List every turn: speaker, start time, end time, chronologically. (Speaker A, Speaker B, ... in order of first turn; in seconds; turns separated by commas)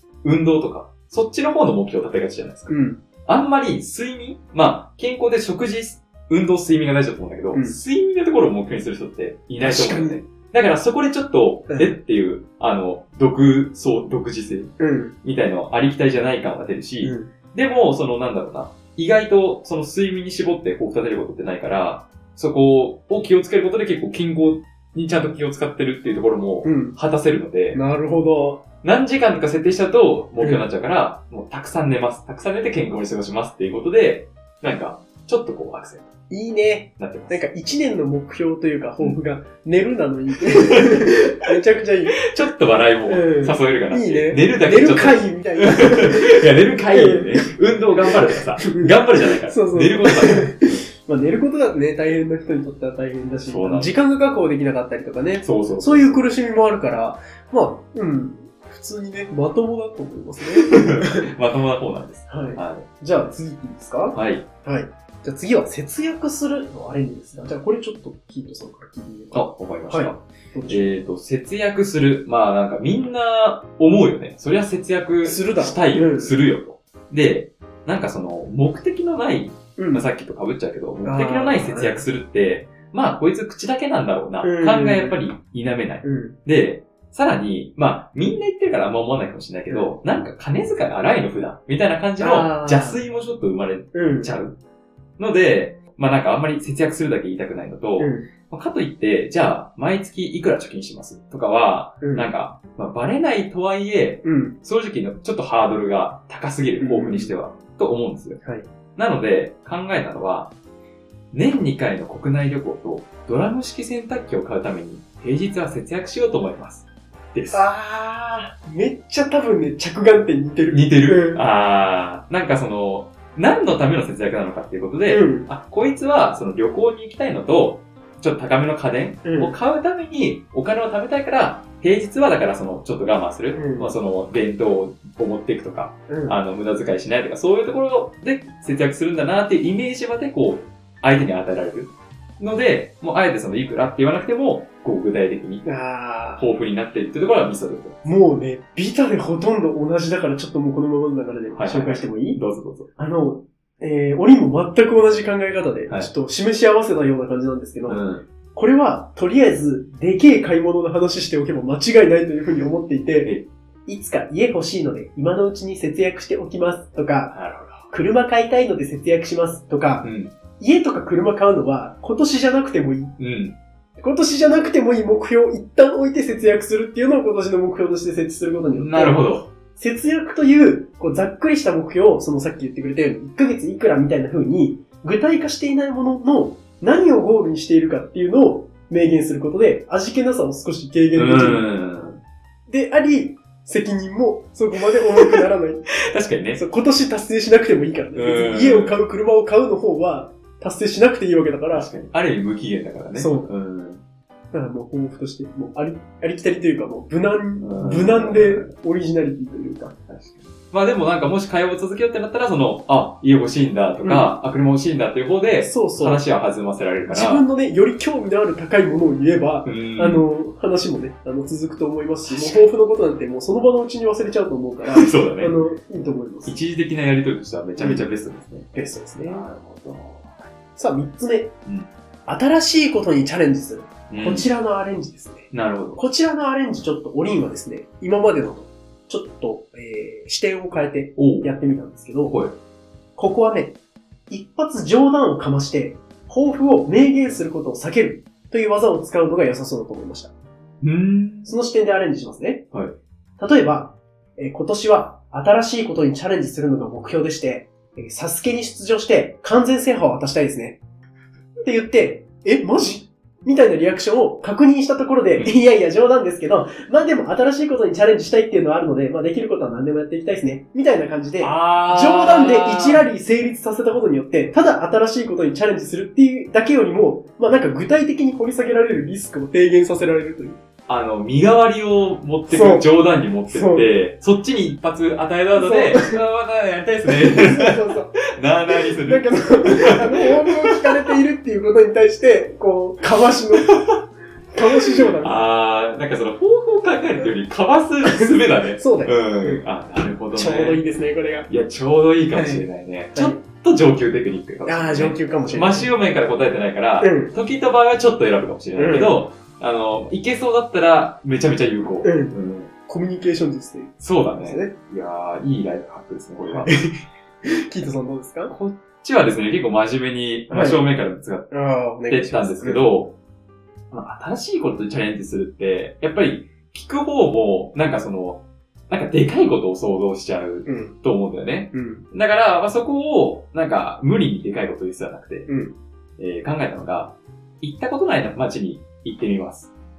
Speaker A: 0.2-27.8, Speaker B: 2.7-3.0, Speaker B: 9.6-10.2, Speaker B: 11.7-12.0, Speaker B: 14.8-15.2, Speaker B: 17.0-17.3, Speaker B: 26.6-26.9, Speaker B: 27.7-28.6, Speaker A: 28.8-36.1, Speaker B: 30.4-30.6, Speaker B: 36.3-42.2, Speaker A: 37.0-37.4, Speaker A: 40.5-41.2, Speaker A: 42.2-50.8, Speaker B: 43.0-47.5, Speaker B: 48.6-61.3, Speaker A: 53.4-54.0, Speaker A: 55.4-56.2, Speaker A: 60.5-62.9, Speaker B: 62.3-71.0, Speaker A: 64.1-64.5, Speaker A: 69.3-94.6, Speaker B: 75.2-76.3, Speaker B: 79.8-80.0, Speaker B: 81.0-82.0, Speaker B: 84.4-85.2, Speaker B: 86.0-86.3, Speaker B: 89.7-89.9, Speaker B: 92.2-93.0, Speaker B: 93.9-94.3, Speaker A: 95.2-108.4, Speaker B: 98.0-98.3, Speaker B: 102.0-102.3, Speaker B: 104.2-104.6, Speaker B: 106.8-107.3, Speaker B: 108.4-108.7, Speaker A: 109.0-110.5, Speaker A: 111.3-117.7, Speaker B: 117.5-121.4, Speaker A: 120.7-145.7, Speaker B: 125.1-125.5, Speaker B: 129.2-129.5, Speaker B: 133.5-133.9, Speaker B: 136.1-136.4, Speaker B: 145.6-146.4, Speaker A: 146.4-148.0, Speaker B: 148.0-152.4, Speaker A: 151.5-152.9, Speaker B: 152.9-158.0, Speaker A: 157.9-158.2, Speaker B: 158.5-167.3, Speaker A: 167.3-167.9, Speaker B: 167.9-173.2, Speaker A: 170.0-170.3, Speaker A: 173.2-173.6, Speaker B: 174.0-191.6, Speaker A: 178.7-179.5, Speaker A: 191.1-192.2, Speaker B: 192.7-195.9, Speaker A: 196.1-196.6, Speaker B: 196.5-201.9, Speaker A: 198.1-199.0, Speaker A: 201.7-204.0, Speaker B: 203.1-203.5, Speaker B: 204.5-209.9, Speaker A: 207.6-208.7, Speaker A: 210.1-217.4, Speaker B: 214.0-214.3, Speaker B: 215.6-216.2, Speaker B: 217.1-226.6, Speaker A: 219.6-220.2, Speaker A: 222.3-222.6, Speaker A: 224.9-225.6, Speaker A: 226.4-230.3, Speaker B: 227.8-228.1, Speaker B: 228.7-229.5, Speaker B: 230.8-231.5, Speaker B: 232.3-242.4, Speaker A: 234.1-234.5, Speaker A: 235.5-236.0, Speaker A: 241.2-241.5, Speaker A: 242.3-242.6, Speaker B: 243.2-243.8, Speaker B: 244.3-250.3, Speaker A: 250.8-251.5, Speaker B: 251.4-252.7, Speaker B: 253.4-260.8, Speaker B: 261.6-280.6, Speaker A: 271.4-273.0, Speaker A: 280.9-291.1, Speaker B: 282.5-282.9, Speaker B: 283.5-283.9, Speaker B: 285.6-286.2, Speaker B: 287.2-288.1, Speaker B: 288.8-293.9, Speaker A: 293.7-294.0, Speaker B: 294.5-295.4, Speaker A: 294.9-300.8, Speaker B: 298.0-299.6, Speaker B: 300.3-301.5, Speaker A: 301.5-312.7, Speaker B: 302.3-303.4, Speaker B: 304.6-305.9, Speaker B: 307.0-307.3, Speaker B: 308.8-309.1, Speaker B: 312.0-314.7, Speaker A: 314.0-316.7, Speaker B: 316.5-316.9, Speaker B: 317.4-318.5, Speaker A: 318.5-321.5, Speaker B: 320.5-320.8, Speaker B: 321.5-322.8, Speaker A: 322.1-323.2, Speaker A: 323.9-335.5, Speaker B: 330.6-330.9, Speaker B: 331.7-332.1, Speaker B: 335.5-335.8, Speaker A: 336.2-339.7